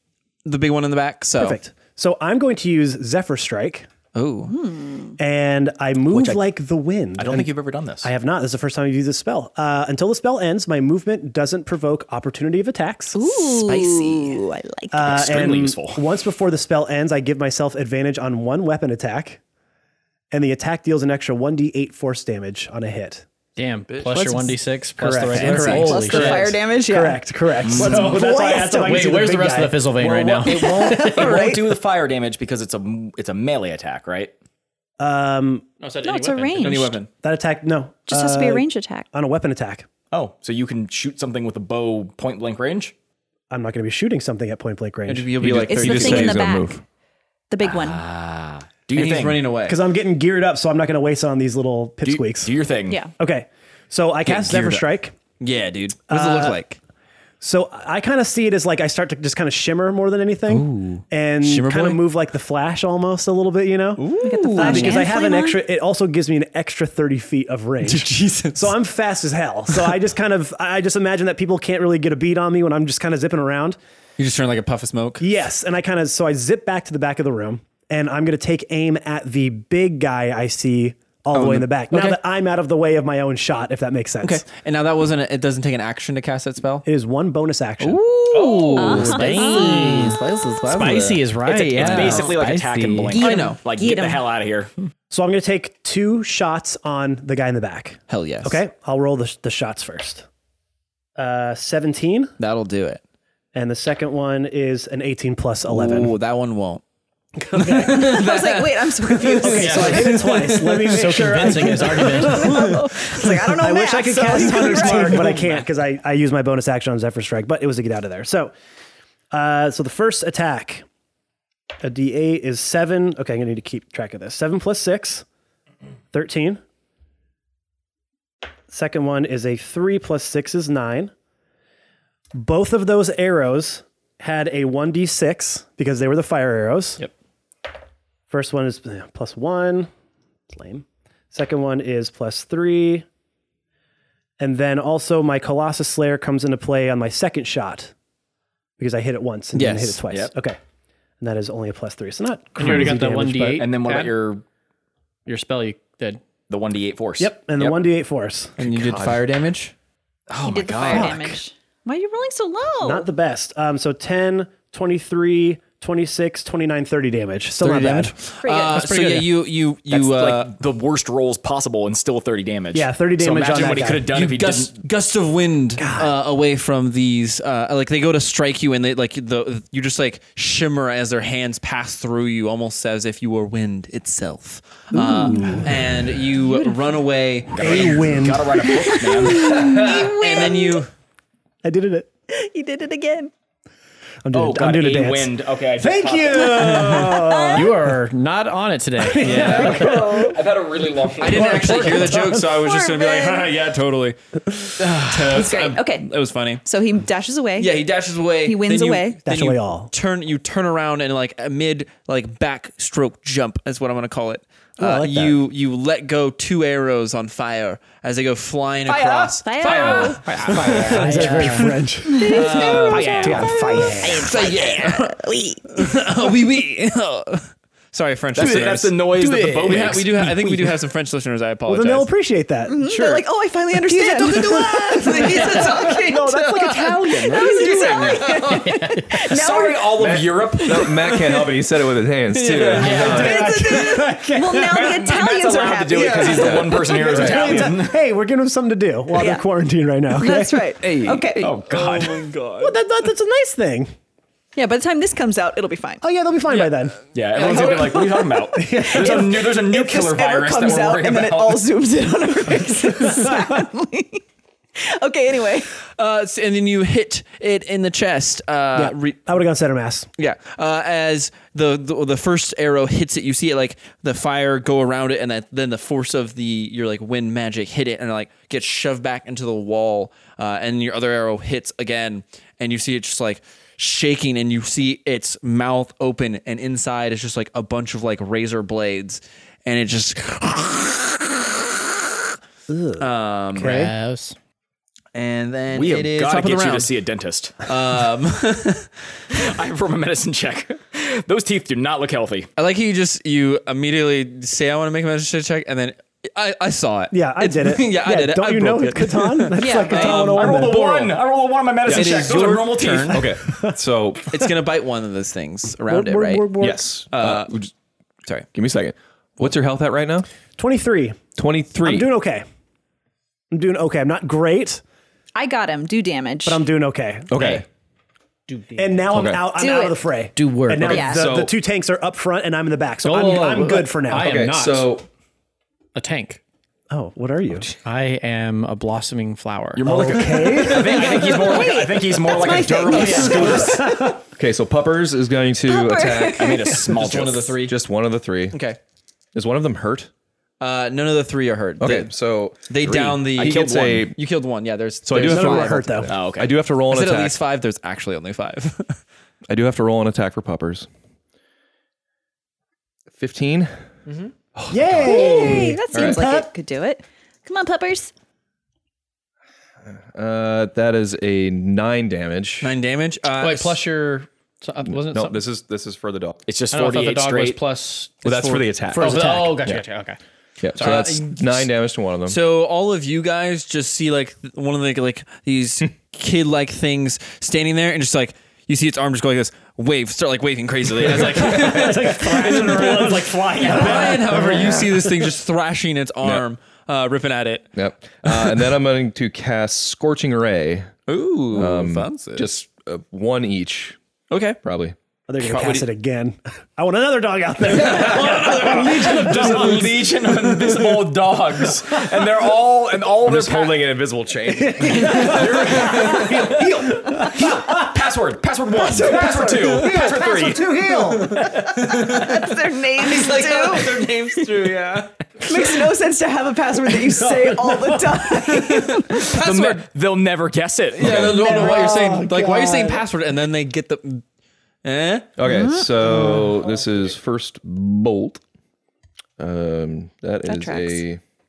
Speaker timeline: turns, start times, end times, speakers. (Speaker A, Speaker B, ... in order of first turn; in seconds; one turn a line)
Speaker A: 0.5-1.6
Speaker B: 1.4-3.9
Speaker A: 4.2-4.5
Speaker C: 4.5-5.2
Speaker B: 5.2-7.5
Speaker D: 6.1-6.4
Speaker D: 7.2-8.1
Speaker B: 8.0-13.2
Speaker C: 13.1-15.2
Speaker D: 13.5-14.4
Speaker B: 14.9-19.4
Speaker D: 15.0-16.0
Speaker B: 20.3-23.2
Speaker E: 23.6-26.6
Speaker A: 23.9-24.5
Speaker B: 25.0-29.9
Speaker A: 25.3-25.9
Speaker C: 25.8-27.2
Speaker D: 27.6-28.4
Speaker C: 27.7-28.9
Speaker E: 27.8-28.2
Speaker E: 28.7-31.4
Speaker D: 30.0-34.3
Speaker C: 30.5-31.8
Speaker B: 35.0-35.7
Speaker E: 35.8-37.0
Speaker C: 36.0-37.0
Speaker A: 36.6-37.1
Speaker B: 37.2-39.9
Speaker C: 38.1-39.1
Speaker D: 40.1-42.9
Speaker B: 43.5-45.3
Speaker A: 45.1-46.4
Speaker F: 45.4-46.8
Speaker C: 45.7-46.8
Speaker C: 47.5-48.0
Speaker D: 47.6-49.5
Speaker A: 48.9-49.8
Speaker B: 49.7-52.6
Speaker D: 52.0-53.0
Speaker B: 53.2-55.1
Speaker A: 54.3-54.8
Speaker A: 55.4-56.8
Speaker B: 56.1-56.6
Speaker B: 57.4-73.8
Speaker A: 60.5-62.0
Speaker A: 64.0-65.1
Speaker C: 64.2-65.6
Speaker A: 67.8-68.7
Speaker A: 74.2-75.2
Speaker B: 75.2-84.4
Speaker A: 81.3-82.2
Speaker A: 84.2-86.9
Speaker B: 86.9-88.0
Speaker A: 87.8-92.4
Speaker D: 88.3-88.9
Speaker E: 88.6-93.2
Speaker C: 88.7-90.0
Speaker D: 91.7-94.7
Speaker C: 93.1-94.3
Speaker A: 93.2-93.6
Speaker B: 95.1-100.3
Speaker A: 98.1-98.6
Speaker B: 101.2-102.3
Speaker A: 102.4-103.0
Speaker B: 103.5-106.1
Speaker A: 105.7-106.8
Speaker B: 107.4-108.2
Speaker A: 107.5-111.2
Speaker C: 107.8-110.2
Speaker B: 109.4-118.5
Speaker E: 109.5-112.7
Speaker C: 112.0-115.4
Speaker E: 114.8-115.5
Speaker B: 119.3-120.8
Speaker B: 121.8-125.2
Speaker B: 126.1-126.6
Speaker B: 128.7-131.1
Speaker B: 132.3-137.1
Speaker B: 138.3-139.9
Speaker B: 140.5-143.1
Speaker B: 144.4-147.9
Speaker B: 148.8-150.6
Speaker A: 149.5-150.0
Speaker B: 151.2-153.7
Speaker E: 152.6-154.2
Speaker D: 153.6-154.4
Speaker E: 155.3-156.2
Speaker D: 156.5-157.8
Speaker B: 157.2-158.6
Speaker A: 158.6-159.7
Speaker D: 158.7-159.2
Speaker D: 160.3-161.2
Speaker C: 160.4-163.1
Speaker B: 160.9-161.4
Speaker B: 162.8-168.1
Speaker A: 167.6-170.5
Speaker C: 168.4-168.8
Speaker E: 168.7-169.3
Speaker D: 169.9-174.8
Speaker B: 172.7-174.1
Speaker A: 174.1-188.3
Speaker B: 175.8-176.1
Speaker B: 184.9-185.8
Speaker D: 187.5-189.9
Speaker B: 187.6-189.6
Speaker C: 188.7-190.8
Speaker A: 189.6-190.9
Speaker B: 191.6-192.1
Speaker C: 192.3-193.3
Speaker B: 194.2-198.0
Speaker D: 194.3-197.1
Speaker C: 196.3-197.7
Speaker E: 197.5-199.9
Speaker B: 199.0-200.4
Speaker A: 199.2-200.0
Speaker D: 199.3-201.9
Speaker A: 201.2-206.6
Speaker B: 201.2-202.5
Speaker C: 202.4-203.5
Speaker C: 205.3-206.1
Speaker C: 206.7-207.7
Speaker A: 207.6-223.5
Speaker C: 208.4-209.2
Speaker B: 209.2-209.9
Speaker B: 214.8-215.4
Speaker D: 218.9-221.1
Speaker C: 219.4-220.2
Speaker E: 220.2-221.8
Speaker B: 220.7-224.3
Speaker C: 222.1-225.9
Speaker D: 222.8-223.8
Speaker A: 224.0-225.1
Speaker A: 225.7-232.1
Speaker D: 228.3-230.8
Speaker E: 229.2-229.8
Speaker B: 231.7-233.2
Speaker C: 232.7-236.2
Speaker B: 233.9-237.7
Speaker A: 234.5-236.7
Speaker D: 235.9-238.2
Speaker C: 237.2-240.0
Speaker A: 237.4-238.7
Speaker E: 238.5-239.1
Speaker D: 239.2-241.1
Speaker F: 240.0-243.5
Speaker A: 242.3-243.3
Speaker D: 242.5-243.8
Speaker E: 242.8-244.4
Speaker C: 243.0-246.8
Speaker B: 243.1-244.3
Speaker D: 244.5-248.0
Speaker A: 246.0-246.7
Speaker B: 246.7-250.7
Speaker F: 246.8-247.4
Speaker C: 249.1-249.5
Speaker C: 250.1-251.5
Speaker F: 250.8-251.4
Speaker D: 251.4-252.3
Speaker A: 251.7-252.8
Speaker B: 252.6-253.9
Speaker C: 254.6-256.0
Speaker B: 256.0-257.0
Speaker A: 256.5-256.8
Speaker D: 257.1-261.7
Speaker C: 257.4-264.2
Speaker B: 258.5-259.5
Speaker C: 264.8-265.7
Speaker A: 266.0-269.3
Speaker B: 268.8-270.1
Speaker A: 270.2-291.5
Speaker B: 292.7-293.1
Speaker A: 293.0-293.9
Speaker E: 293.6-294.4
Speaker B: 293.6-293.9
Speaker A: 295.1-296.9
Speaker D: 295.7-297.7
Speaker A: 297.7-298.9
Speaker D: 299.3-302.5
Speaker A: 302.6-310.8
Speaker B: 307.1-311.1
Speaker C: 309.6-310.2
Speaker D: 310.0-313.3
Speaker F: 311.9-312.4
Speaker A: 311.9-313.3
Speaker F: 313.1-314.4
Speaker B: 313.4-313.8
Speaker A: 314.3-316.6
Speaker B: 315.9-316.8
Speaker F: 316.6-317.7
Speaker A: 317.1-317.5
Speaker F: 318.5-320.3
Speaker B: 320.6-321.2
Speaker F: 321.4-322.1
Speaker B: 321.8-322.4
Speaker B: 323.5-324.8
Speaker C: 325.4-326.6
Speaker B: 326.5-327.6
Speaker F: 327.3-327.6
Speaker E: 328.5-329.1
Speaker B: 328.8-334.3
Speaker F: 329.1-329.5
Speaker C: 329.6-330.0
Speaker E: 330.4-331.1
Speaker C: 330.9-331.3
Speaker F: 330.9-331.5
Speaker E: 333.0-334.9
Speaker F: 334.1-335.1
Speaker E: 335.9-336.4
Speaker B: 336.9-337.7
Speaker E: 337.8-340.2
Speaker D: 339.8-344.0
Speaker B: 339.9-341.3
Speaker C: 341.0-344.1
Speaker A: 342.9-343.6
Speaker B: 342.9-344.2
Speaker F: 344.2-346.6
Speaker C: 345.7-346.9
Speaker D: 346.3-347.6
Speaker A: 346.8-347.8
Speaker F: 347.6-348.6
Speaker A: 348.5-348.8
Speaker F: 349.3-350.1
Speaker A: 350.6-352.1
Speaker F: 351.8-354.2
Speaker A: 352.7-356.1
Speaker D: 353.4-354.1
Speaker F: 355.1-357.4
Speaker B: 355.2-356.1
Speaker D: 356.1-356.5
Speaker A: 356.9-359.0
Speaker F: 359.5-360.9
Speaker F: 363.1-363.7
Speaker F: 364.6-366.2
Speaker B: 364.7-366.5
Speaker C: 365.0-368.1
Speaker F: 369.9-372.7
Speaker A: 372.6-373.8
Speaker E: 373.4-375.4
Speaker F: 374.9-376.4
Speaker D: 376.5-377.6
Speaker E: 376.7-380.2
Speaker F: 378.2-379.9
Speaker B: 379.0-379.5
Speaker F: 380.6-382.4
Speaker A: 380.8-381.7
Speaker A: 382.3-397.7
Speaker B: 391.1-395.0
Speaker F: 391.1-392.0
Speaker D: 392.6-394.3
Speaker F: 394.4-394.8
Speaker F: 397.8-400.9
Speaker A: 398.2-398.5
Speaker A: 401.1-402.5
Speaker F: 401.5-404.0
Speaker A: 404.3-404.6
Speaker F: 404.6-405.0
Speaker B: 405.3-410.2
Speaker A: 405.4-405.9
Speaker A: 407.7-409.6
Speaker D: 408.3-413.9
Speaker F: 413.2-416.2
Speaker B: 414.7-417.9
Speaker D: 415.0-420.8
Speaker B: 418.8-421.5
Speaker A: 421.1-425.1
Speaker C: 421.8-424.1
Speaker C: 425.4-429.3
Speaker B: 427.1-428.0
Speaker A: 428.6-429.9
Speaker D: 429.3-431.7
Speaker A: 431.0-434.2
Speaker F: 431.0-431.3
Speaker B: 431.2-433.0
Speaker A: 434.8-435.3
Speaker F: 435.4-438.4
Speaker C: 435.5-436.1
Speaker F: 439.4-441.2
Speaker C: 440.4-441.0